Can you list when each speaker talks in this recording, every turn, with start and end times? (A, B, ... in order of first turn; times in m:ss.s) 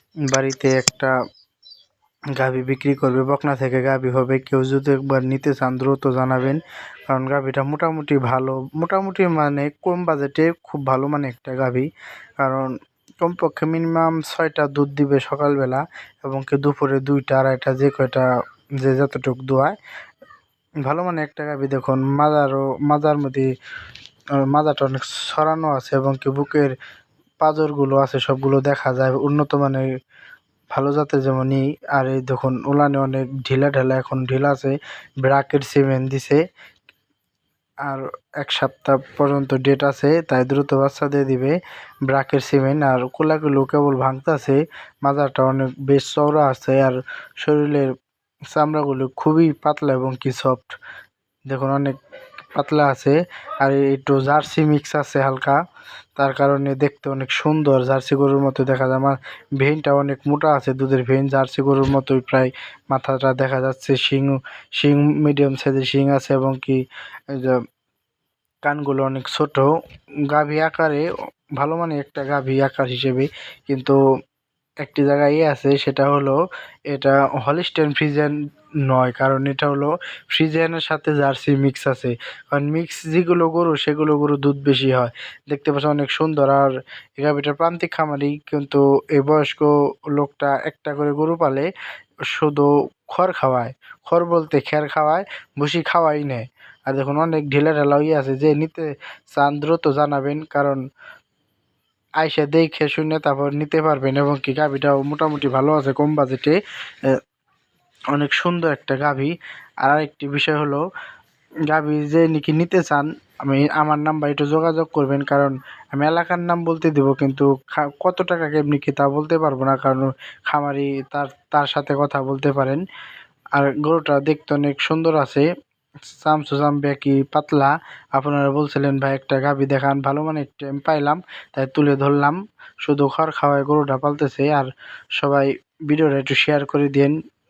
0:00.3-0:01.1 A
0:02.4-0:11.9 A
0:12.4-0:12.7 A
0:13.2-0:18.3 A
0:18.8-0:19.8 A
0:20.8-0:23.5 A
0:24.5-0:26.8 A
0:27.4-0:29.8 A
0:30.7-0:36.4 A
0:37.8-0:41.6 A
0:42.1-0:47.9 A
0:48.5-0:50.8 A
0:51.5-0:52.0 A
0:52.5-0:55.6 A
0:56.2-1:07.6 A
1:08.6-1:09.7 A
1:10.3-1:11.1 A
1:11.6-1:14.0 A
1:14.8-1:16.4 A
1:16.9-1:18.3 A
1:18.9-1:31.7 A
1:32.3-1:40.8 A
1:42.2-1:47.1 A
1:48.1-1:50.8 A
1:51.7-2:02.8 A
2:03.6-2:05.4 A
2:06.1-2:17.1 A